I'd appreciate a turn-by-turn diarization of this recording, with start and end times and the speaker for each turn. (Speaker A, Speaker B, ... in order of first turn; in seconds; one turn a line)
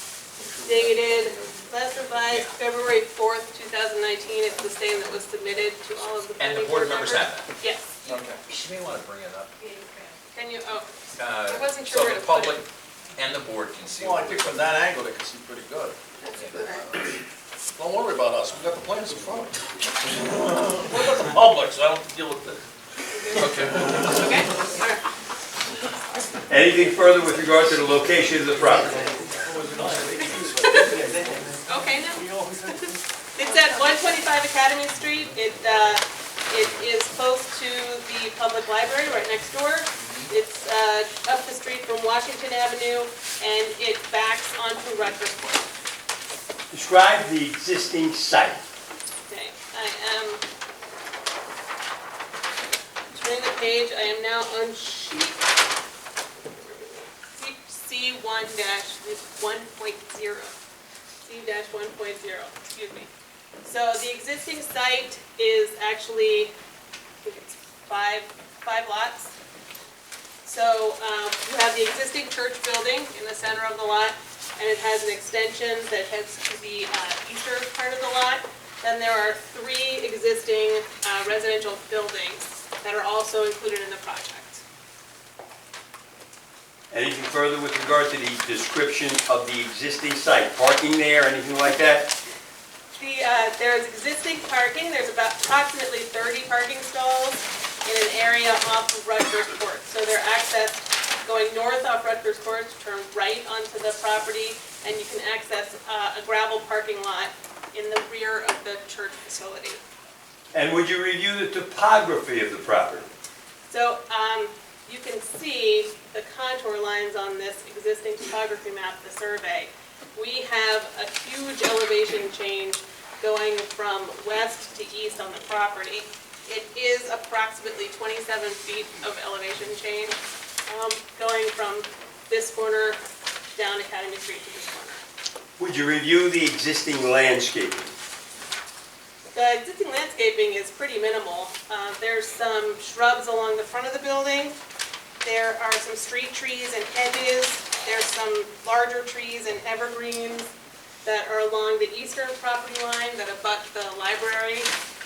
Speaker A: 0.4-1.5
Speaker B: 0.6-8.0
Speaker C: 6.3-7.5
Speaker A: 8.0-8.4
Speaker C: 8.4-9.5
Speaker B: 9.6-12.6
Speaker C: 11.2-14.6
Speaker A: 14.0-16.0
Speaker B: 16.2-16.9
Speaker C: 16.3-17.1
Speaker A: 17.7-22.6
Speaker B: 23.1-25.0
Speaker C: 23.3-23.9
Speaker A: 23.6-24.4
Speaker D: 26.5-29.1
Speaker A: 29.4-31.1
Speaker B: 30.7-31.0
Speaker B: 31.6-45.7
Speaker D: 46.7-48.6
Speaker B: 49.3-50.4
Speaker B: 53.1-55.4
Speaker B: 56.4-60.5
Speaker B: 61.2-63.1
Speaker B: 63.6-66.5
Speaker B: 67.2-69.3
Speaker B: 70.4-84.6
Speaker D: 86.9-92.1
Speaker B: 92.9-109.8
Speaker D: 110.5-113.1
Speaker B: 113.7-133.0
Speaker B: 133.6-135.0
Speaker D: 135.6-137.9
Speaker B: 139.3-144.6
Speaker B: 145.2-150.5
Speaker B: 151.0-154.7